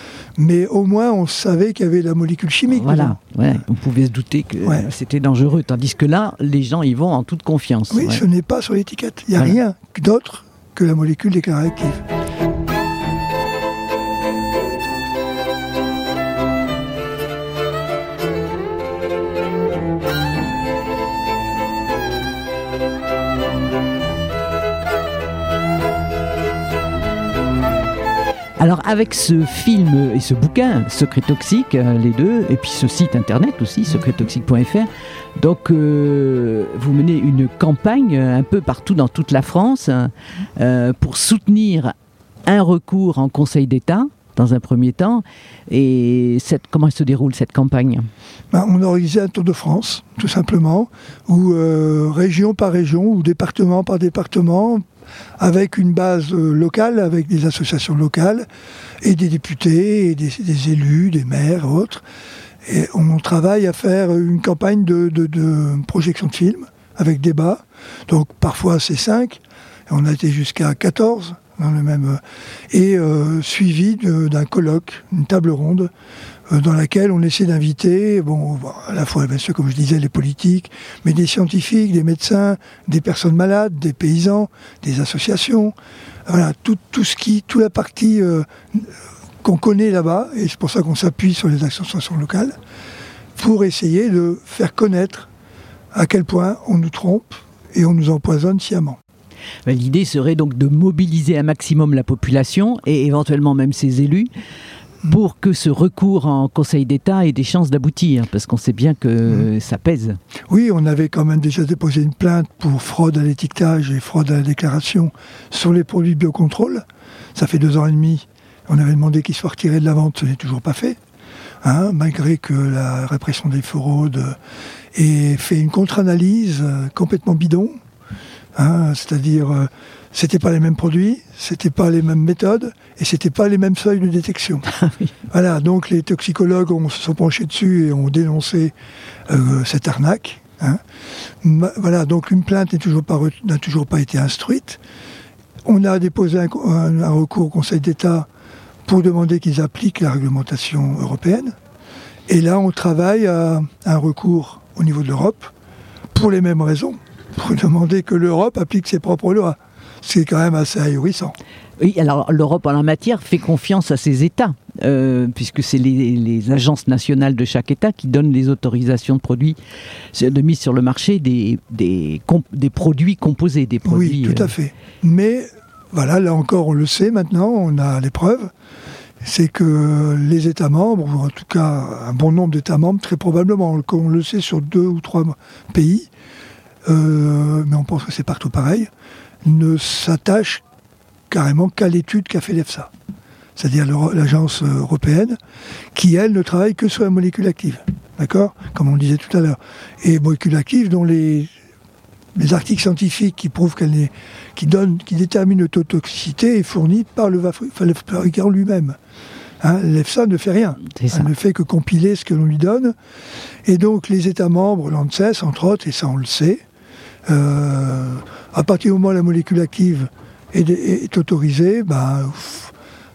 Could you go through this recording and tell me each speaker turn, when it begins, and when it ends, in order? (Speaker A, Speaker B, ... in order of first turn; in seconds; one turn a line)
Speaker A: 0.4-3.2
Speaker B: 2.7-8.2
Speaker A: 7.9-12.0
Speaker B: 28.6-41.9
Speaker B: 42.5-48.1
Speaker A: 48.5-54.8
Speaker A: 55.4-58.5
Speaker A: 59.0-62.0
Speaker A: 62.6-72.2
Speaker A: 72.7-75.9
Speaker A: 76.5-85.7
Speaker A: 86.3-88.9
Speaker A: 89.4-92.5
Speaker A: 93.4-95.3
Speaker A: 95.9-99.0
Speaker B: 99.7-104.3
Speaker B: 105.0-110.2
Speaker A: 110.5-121.0
Speaker A: 121.6-124.4
Speaker A: 125.0-127.8
Speaker A: 128.6-134.7
Speaker B: 134.7-135.0
Speaker A: 135.3-138.7
Speaker A: 139.3-140.8
Speaker A: 141.4-144.8
Speaker A: 145.7-148.3
Speaker A: 148.9-151.5
Speaker A: 152.3-155.5
Speaker A: 156.1-161.4
Speaker B: 161.8-169.6
Speaker B: 170.1-174.5
Speaker A: 173.8-178.5
Speaker A: 179.2-186.1
Speaker A: 186.9-188.9
Speaker A: 189.4-190.6
Speaker A: 191.3-192.9
Speaker A: 193.6-195.4
Speaker A: 195.9-201.5
Speaker A: 202.4-209.0
Speaker A: 209.6-212.9
Speaker B: 210.9-211.3
Speaker A: 213.7-216.6
Speaker A: 217.3-222.7